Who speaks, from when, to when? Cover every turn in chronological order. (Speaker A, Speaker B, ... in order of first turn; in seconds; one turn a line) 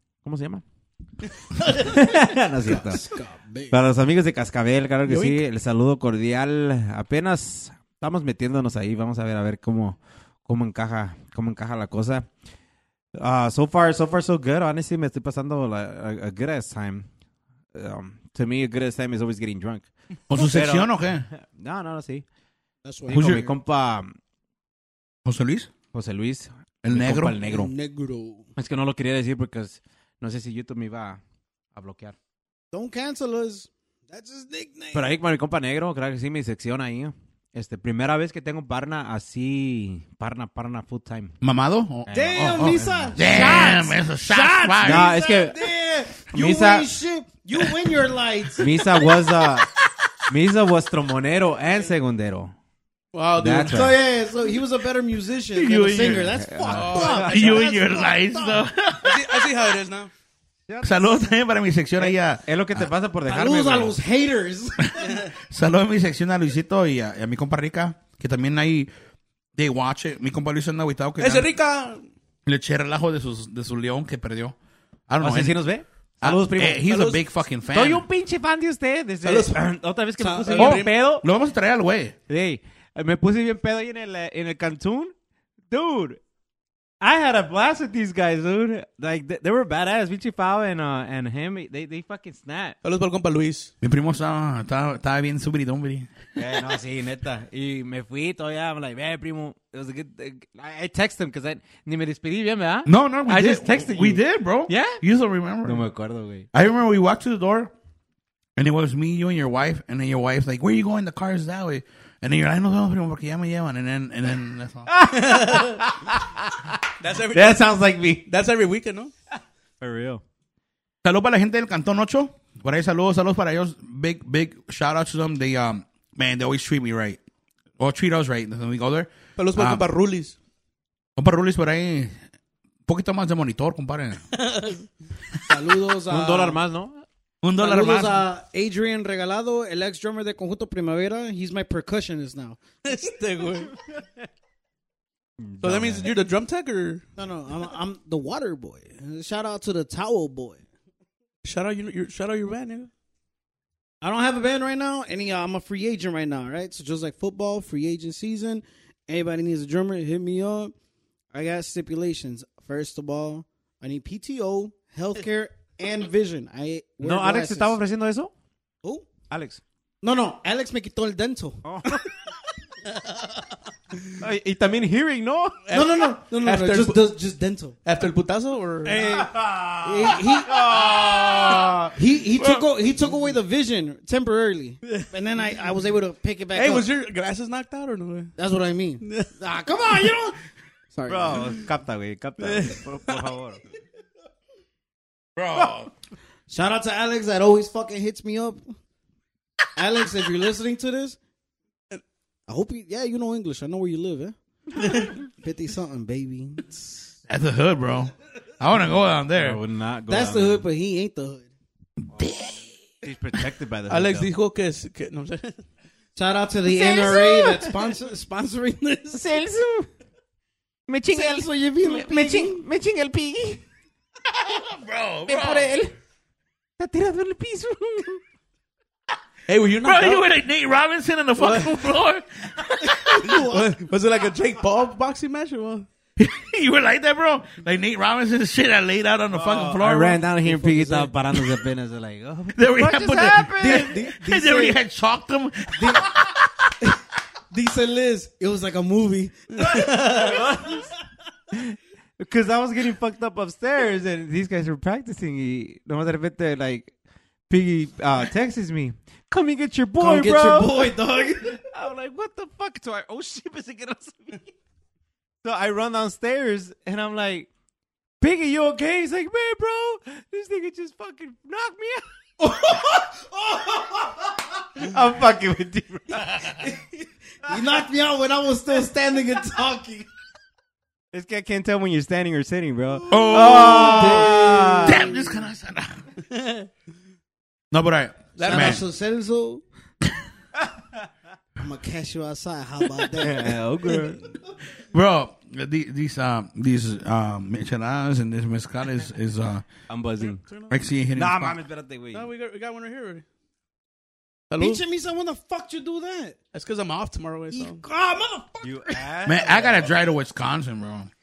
Speaker A: 0.2-0.6
Speaker A: 1.8-3.0
Speaker B: 2.6-3.8
Speaker A: 3.7-12.3
Speaker C: 5.1-5.4
Speaker A: 13.2-17.1
Speaker A: 17.7-22.2
Speaker D: 20.3-21.3
Speaker B: 22.8-23.5
Speaker A: 23.1-24.1
Speaker D: 23.1-23.5
Speaker D: 25.2-25.7
Speaker A: 25.9-27.7
Speaker D: 26.8-27.4
Speaker B: 27.4-28.5
Speaker A: 28.6-31.2
Speaker A: 31.7-32.2
Speaker B: 32.7-35.1
Speaker A: 34.9-41.4
Speaker D: 41.4-45.1
Speaker A: 42.1-43.9
Speaker B: 42.1-49.1
Speaker A: 44.8-45.7
Speaker A: 46.3-46.9
Speaker A: 48.6-49.7
Speaker A: 50.3-52.5
Speaker C: 53.1-53.9
Speaker A: 53.4-54.0
Speaker B: 53.6-58.7
Speaker D: 55.5-56.3
Speaker A: 56.0-57.6
Speaker C: 56.7-57.5
Speaker D: 57.0-59.5
Speaker C: 59.0-60.1
Speaker A: 60.7-61.1
Speaker D: 60.8-62.9
Speaker A: 62.0-64.0
Speaker B: 63.3-65.2
Speaker D: 64.8-68.9
Speaker D: 69.6-71.5
Speaker C: 71.2-72.1
Speaker D: 72.5-74.6
Speaker D: 75.1-75.6
Speaker A: 75.2-76.9
Speaker D: 76.2-78.0
Speaker C: 76.9-77.2
Speaker A: 77.7-81.3
Speaker C: 79.2-79.6
Speaker B: 80.2-80.6
Speaker C: 80.5-80.9
Speaker D: 80.6-82.2
Speaker A: 82.3-85.1
Speaker A: 85.7-86.2
Speaker A: 87.0-92.8
Speaker C: 92.8-93.7
Speaker D: 93.8-96.1
Speaker A: 96.4-105.0
Speaker D: 102.9-105.8
Speaker A: 105.6-106.5
Speaker D: 106.5-107.7
Speaker D: 108.6-114.9
Speaker A: 114.9-116.8
Speaker C: 115.1-115.8
Speaker C: 117.0-119.1
Speaker A: 117.3-118.2
Speaker A: 119.8-120.2
Speaker D: 121.0-127.2
Speaker D: 127.8-129.9
Speaker C: 129.4-130.4
Speaker D: 131.2-132.2
Speaker D: 132.9-134.2
Speaker C: 134.3-134.9
Speaker B: 135.5-136.6
Speaker A: 136.1-137.1
Speaker D: 137.4-138.3
Speaker B: 137.6-142.6
Speaker C: 142.8-143.8
Speaker A: 145.4-146.1
Speaker C: 145.6-147.0
Speaker B: 147.2-150.6
Speaker C: 151.4-152.9
Speaker B: 154.0-160.7
Speaker B: 161.3-167.8
Speaker A: 167.0-168.3
Speaker A: 169.3-169.6
Speaker B: 170.0-172.0
Speaker A: 171.6-172.1
Speaker A: 174.2-175.6
Speaker C: 175.7-177.0
Speaker B: 175.7-177.8
Speaker C: 177.8-179.2
Speaker B: 178.8-180.8
Speaker A: 179.0-181.9
Speaker D: 181.1-181.6
Speaker B: 181.9-186.9
Speaker C: 186.5-188.3
Speaker B: 188.4-190.4
Speaker C: 189.0-189.3
Speaker B: 190.9-191.6
Speaker A: 191.1-193.6
Speaker C: 192.4-193.3
Speaker D: 195.4-195.9
Speaker B: 196.5-198.6
Speaker B: 199.8-201.2
Speaker B: 202.5-207.1
Speaker C: 204.8-205.1
Speaker D: 207.3-209.6
Speaker A: 209.3-210.7
Speaker B: 210.1-211.5
Speaker D: 212.1-212.6
Speaker A: 213.0-214.3
Speaker C: 213.9-215.6
Speaker B: 216.2-219.3
Speaker A: 216.7-217.8
Speaker A: 219.1-219.9
Speaker A: 220.9-223.6
Speaker B: 221.1-222.7
Speaker D: 224.3-225.7
Speaker A: 225.3-225.9
Speaker A: 226.8-228.2
Speaker C: 229.5-230.2
Speaker D: 229.8-233.4
Speaker C: 231.4-231.9
Speaker B: 232.9-233.8
Speaker C: 233.1-235.9
Speaker D: 236.2-240.2
Speaker A: 239.3-244.0
Speaker B: 240.4-241.1
Speaker D: 242.6-246.7
Speaker B: 243.6-244.8
Speaker B: 245.7-246.2
Speaker B: 247.5-250.8
Speaker A: 249.6-250.9
Speaker C: 249.7-250.0
Speaker A: 251.5-256.9
Speaker A: 257.5-264.5
Speaker B: 260.0-261.6
Speaker A: 265.4-267.5
Speaker A: 268.2-272.0
Speaker B: 272.4-274.4
Speaker A: 274.8-276.3
Speaker D: 276.2-276.6
Speaker B: 276.6-276.9
Speaker B: 277.4-280.1
Speaker A: 281.1-285.1
Speaker D: 283.1-286.0
Speaker B: 283.1-285.5
Speaker C: 286.3-286.7
Speaker D: 287.7-288.8
Speaker C: 288.4-288.8
Speaker B: 288.4-289.6
Speaker B: 291.6-293.6
Speaker A: 293.2-294.2
Speaker D: 294.9-299.7
Speaker A: 299.9-300.4
Speaker C: 300.2-300.7
Speaker D: 300.7-301.6
Speaker A: 301.1-302.3
Speaker C: 302.1-303.2
Speaker C: 304.5-304.8
Speaker B: 304.6-306.4
Speaker C: 306.5-307.8
Speaker B: 307.5-309.1
Speaker A: 308.6-309.9
Speaker D: 309.3-311.1